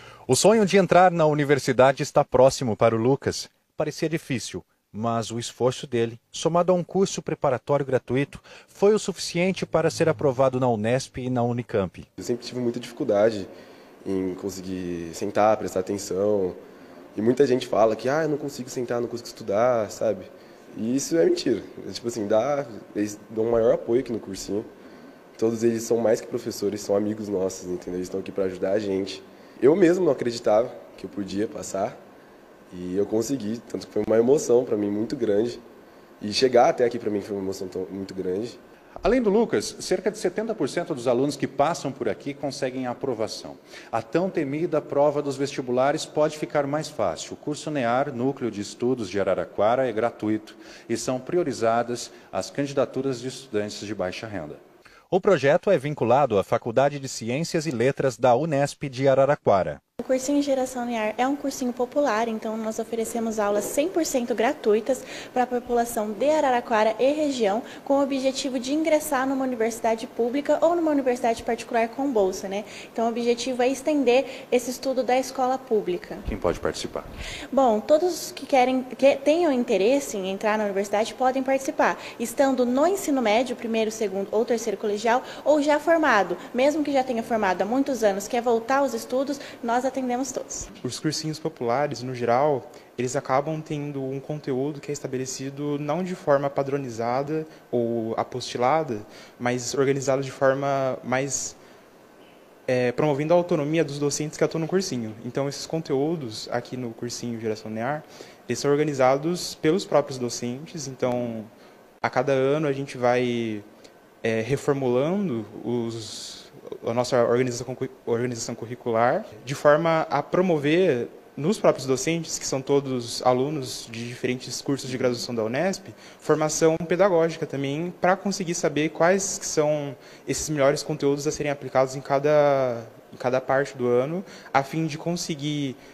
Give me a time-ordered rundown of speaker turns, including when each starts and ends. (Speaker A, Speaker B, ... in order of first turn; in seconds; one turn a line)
Speaker A: 0.3-12.1
Speaker B: 12.2-13.5
Speaker B: 14.0-16.6
Speaker B: 17.1-24.7
Speaker B: 25.4-32.0
Speaker B: 32.7-35.6
Speaker B: 36.2-38.6
Speaker A: 39.0-54.6
Speaker A: 55.1-59.8
Speaker C: 60.0-76.2
Speaker A: 76.3-77.1
Speaker C: 77.5-90.7
Speaker D: 90.8-101.6
Speaker D: 102.7-111.5
Speaker D: 112.0-113.7
Speaker D: 114.2-135.8